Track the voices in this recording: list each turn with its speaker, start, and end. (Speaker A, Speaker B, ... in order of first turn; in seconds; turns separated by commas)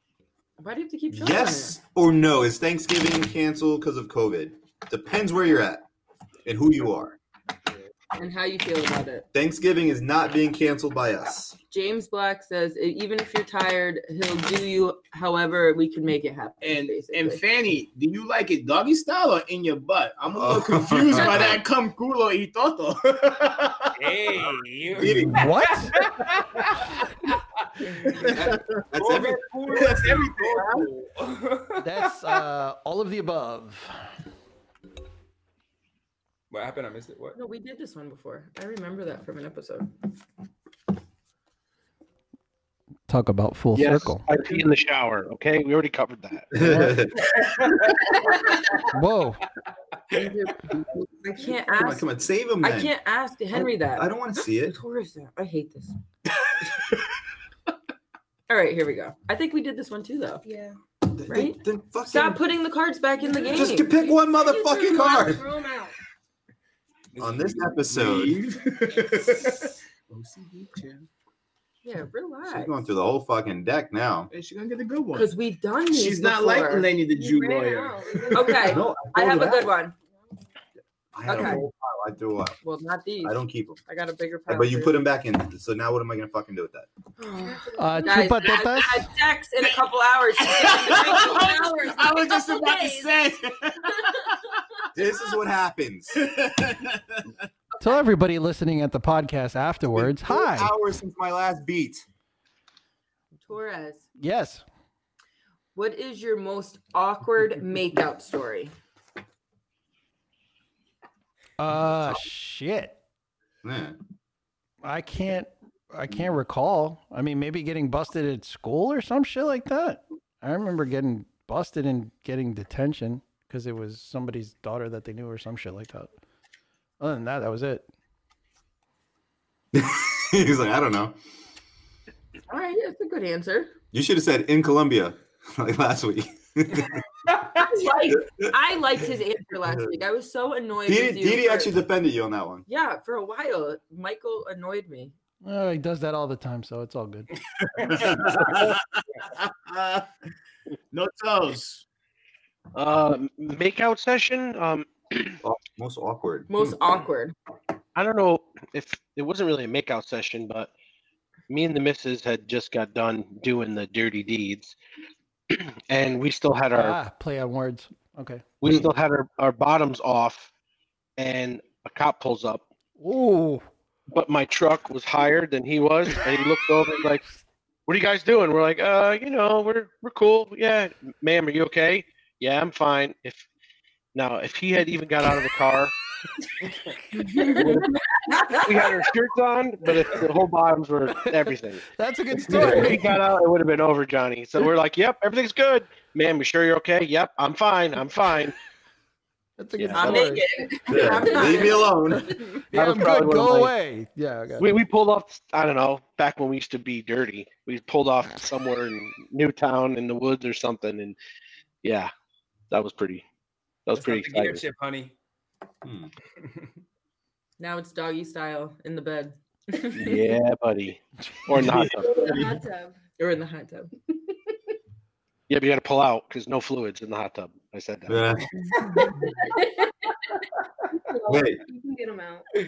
Speaker A: 0.6-1.8, Speaker B: 1.1-5.9, Speaker B: 6.5-7.2, Speaker A: 8.2-9.3, Speaker B: 9.3-11.6, Speaker A: 11.7-17.4, Speaker C: 16.6-24.6, Speaker B: 20.3-21.6, Speaker D: 24.0-32.3, Speaker B: 25.0-25.5, Speaker E: 25.3-25.9, Speaker C: 28.0-28.6, Speaker B: 28.2-29.9, Speaker C: 29.7-30.9, Speaker E: 31.8-33.9, Speaker D: 36.5-37.4, Speaker A: 37.4-39.9, Speaker E: 43.1-44.3, Speaker F: 43.8-46.6, Speaker B: 46.5-47.4, Speaker E: 46.6-47.0, Speaker D: 47.4-48.0, Speaker A: 48.2-48.8, Speaker E: 48.9-49.4, Speaker A: 50.1-56.0, Speaker B: 51.7-52.9, Speaker B: 53.5-54.8, Speaker A: 58.5-60.4, Speaker G: 60.4-60.8, Speaker B: 61.2-62.4, Speaker A: 61.3-64.0, Speaker G: 63.2-66.0, Speaker B: 63.5-65.5, Speaker D: 67.2-67.7, Speaker B: 67.2-68.4, Speaker C: 67.9-71.1, Speaker A: 71.8-72.8, Speaker B: 72.5-74.3, Speaker C: 74.3-75.3, Speaker A: 75.1-76.9, Speaker C: 75.9-78.8, Speaker G: 77.1-78.8, Speaker A: 78.3-80.0, Speaker B: 78.6-79.8, Speaker B: 81.1-82.6, Speaker A: 81.2-81.7, Speaker A: 82.6-85.0, Speaker B: 83.2-83.8, Speaker B: 84.5-86.9, Speaker A: 87.2-92.1, Speaker G: 87.5-88.2, Speaker E: 87.8-89.1, Speaker C: 90.4-94.6, Speaker G: 91.2-93.2, Speaker G: 93.8-95.4, Speaker B: 94.9-96.2, Speaker C: 96.1-97.4, Speaker E: 97.8-100.7, Speaker B: 99.9-102.0, Speaker A: 103.4-104.0, Speaker E: 104.2-104.6, Speaker A: 105.8-108.7, Speaker E: 111.6-113.0, Speaker B: 113.6-114.0, Speaker E: 114.8-126.1, Speaker E: 127.0-127.9, Speaker B: 129.7-131.2, Speaker A: 132.5-133.7, Speaker B: 133.9-137.0, Speaker A: 137.6-141.8, Speaker B: 138.1-138.5, Speaker B: 139.7-140.0, Speaker B: 140.9-142.7, Speaker A: 142.7-145.2, Speaker E: 145.4-147.3, Speaker C: 147.8-149.2, Speaker B: 147.8-148.6, Speaker B: 149.7-150.0, Speaker C: 150.9-151.8, Speaker F: 152.7-155.4, Speaker B: 155.4-156.9, Speaker A: 156.5-157.3, Speaker F: 157.9-160.7, Speaker F: 161.5-164.8, Speaker F: 165.5-167.0, Speaker E: 166.8-168.4, Speaker F: 168.6-170.5, Speaker F: 171.2-172.7, Speaker E: 173.0-173.7, Speaker F: 174.1-177.2, Speaker F: 177.9-183.5, Speaker F: 184.1-185.9, Speaker A: 187.2-189.1, Speaker G: 187.4-187.6, Speaker F: 187.6-187.9, Speaker F: 188.6-191.8, Speaker E: 192.0-193.1, Speaker F: 192.5-198.6, Speaker E: 199.6-200.4, Speaker F: 199.8-200.3, Speaker A: 199.9-202.6, Speaker B: 200.9-202.4, Speaker G: 201.3-201.6, Speaker F: 202.7-203.7, Speaker E: 202.7-204.7, Speaker F: 204.6-211.2, Speaker F: 211.8-212.1, Speaker F: 212.7-213.3, Speaker F: 213.9-214.6, Speaker D: 213.9-215.1, Speaker B: 215.8-216.1, Speaker A: 217.6-220.3, Speaker F: 219.9-222.1, Speaker G: 222.0-223.0, Speaker A: 223.2-223.9, Speaker F: 225.5-228.3, Speaker B: 228.1-228.8, Speaker G: 229.1-230.1, Speaker G: 230.9-232.5, Speaker B: 231.3-231.6